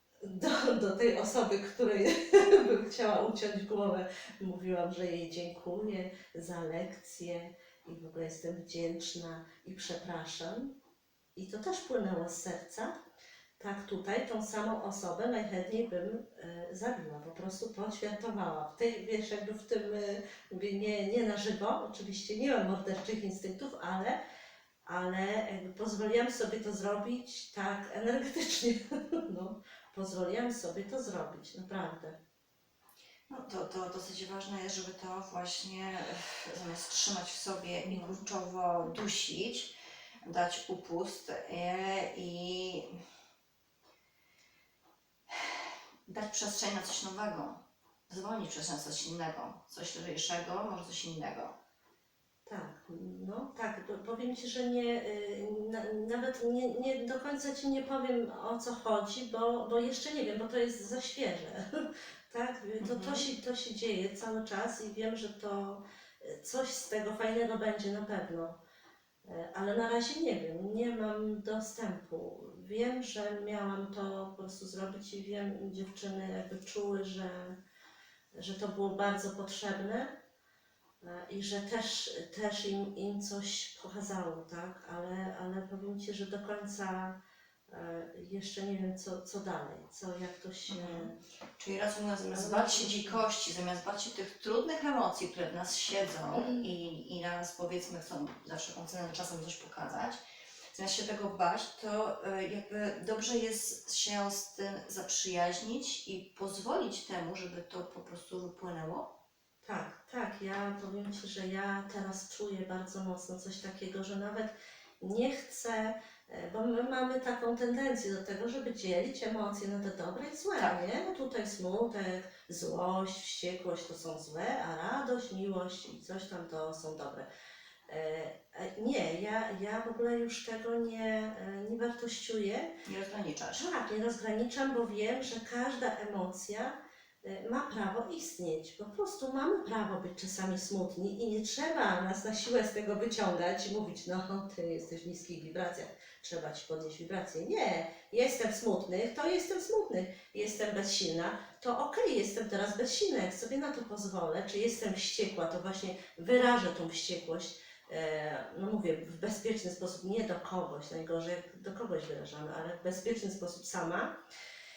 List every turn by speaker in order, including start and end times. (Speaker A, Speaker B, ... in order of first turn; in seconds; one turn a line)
Speaker A: 0.2-10.7
Speaker A: 11.3-12.9
Speaker A: 13.6-24.2
Speaker A: 24.9-32.2
Speaker B: 33.3-39.7
Speaker B: 40.2-43.0
Speaker B: 45.3-51.5
Speaker A: 52.5-68.6
Speaker B: 62.8-63.3
Speaker A: 69.2-77.6
Speaker A: 78.3-80.2
Speaker A: 81.0-91.2
Speaker B: 90.7-100.2
Speaker A: 92.3-93.2
Speaker B: 100.7-109.1
Speaker A: 109.6-127.2
Speaker A: 127.9-132.7
Speaker B: 132.8-133.7
Speaker A: 133.5-164.2